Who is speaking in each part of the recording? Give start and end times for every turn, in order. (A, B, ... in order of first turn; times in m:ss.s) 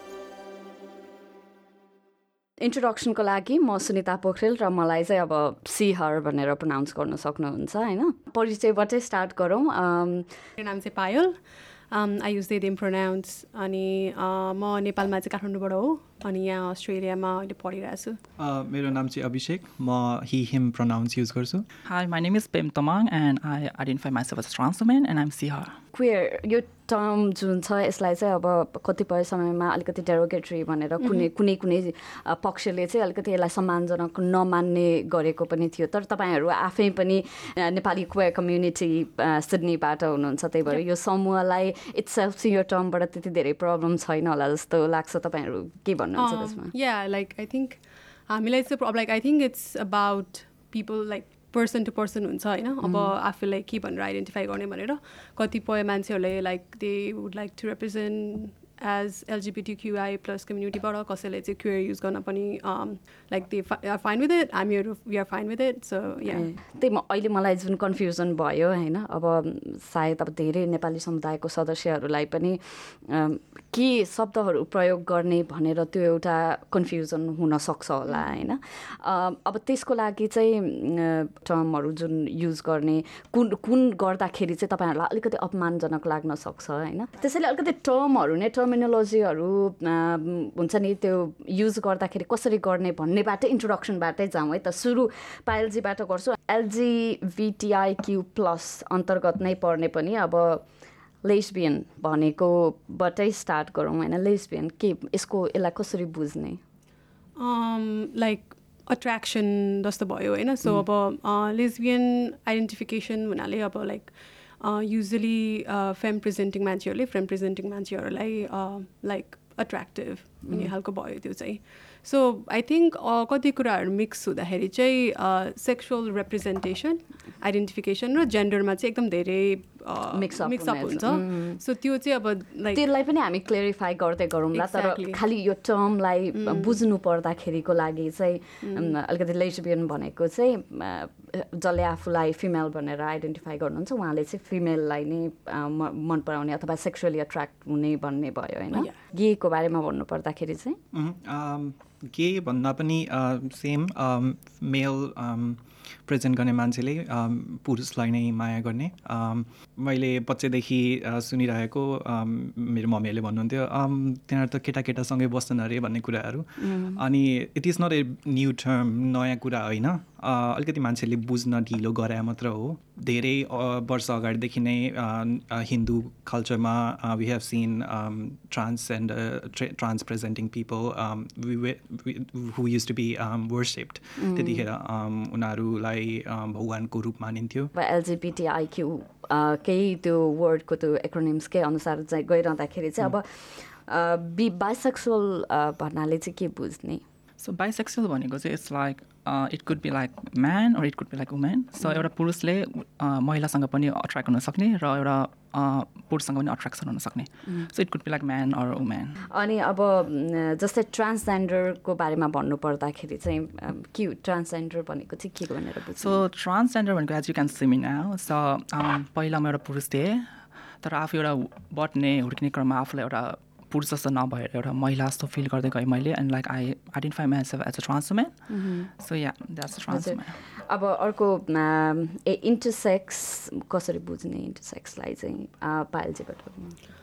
0:02.6-0:10.3 A
0:10.6-0:11.4 B
0:11.9-0:18.2 B
0:18.4-0:21.6 C
0:21.8-0:25.8 D
0:25.9-0:46.7 A
0:31.0-0:31.2 B
0:46.2-1:06.5 B
0:52.8-0:53.1 A
1:06.2-1:40.6 A
1:41.2-1:46.6 A
1:47.4-2:12.8 B
2:10.1-2:11.6 A
2:12.7-2:30.8 A
2:14.5-2:15.2 B
2:16.3-2:16.8 B
2:18.6-2:18.9 B
2:28.7-2:29.0 B
2:30.9-3:07.7 C
2:46.6-2:47.0 A
3:04.2-3:04.6 A
3:07.7-3:17.0 A
3:17.4-3:29.2 D
3:29.3-3:36.2 A
3:36.0-3:50.4 D
3:48.5-3:48.9 A
3:49.9-3:56.8 A